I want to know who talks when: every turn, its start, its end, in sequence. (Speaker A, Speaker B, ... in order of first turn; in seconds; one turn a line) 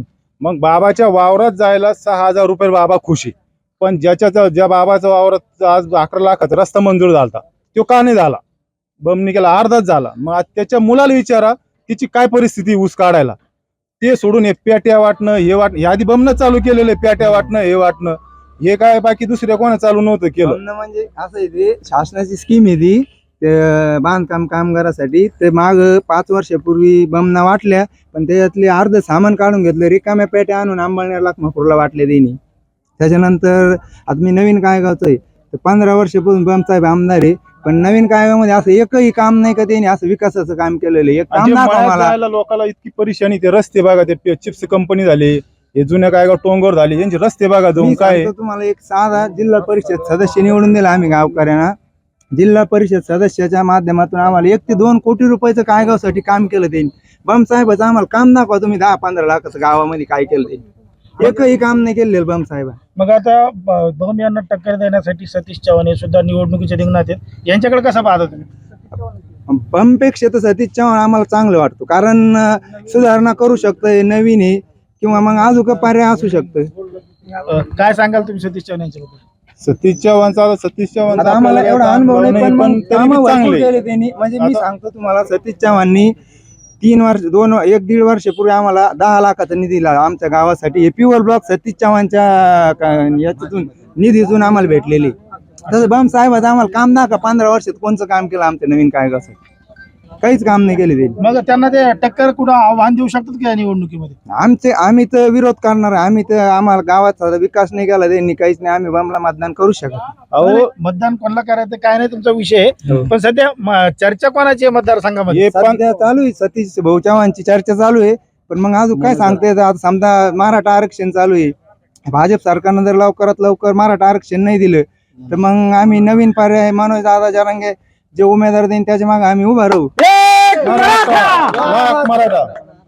Speaker A: 0.4-8.4
Speaker A: 9.0-13.3
Speaker A: 14.0-20.6
Speaker B: 20.4-32.4
Speaker B: 33.0-42.1
Speaker A: 41.3-48.3
Speaker B: 47.8-51.7
Speaker B: 52.3-60.6
Speaker B: 61.2-62.8
Speaker C: 63.0-68.5
Speaker B: 69.5-76.7
Speaker C: 77.4-79.2
Speaker A: 79.6-83.7
Speaker B: 81.1-86.1
Speaker A: 84.4-84.6
Speaker B: 86.8-95.1
Speaker B: 95.7-99.3
Speaker B: 100.2-101.2
Speaker C: 101.2-104.1
Speaker B: 104.3-110.0
Speaker A: 110.3-110.7
Speaker C: 110.4-115.5
Speaker A: 115.3-115.8
Speaker B: 115.5-121.5
Speaker B: 122.1-129.9
Speaker A: 130.5-132.5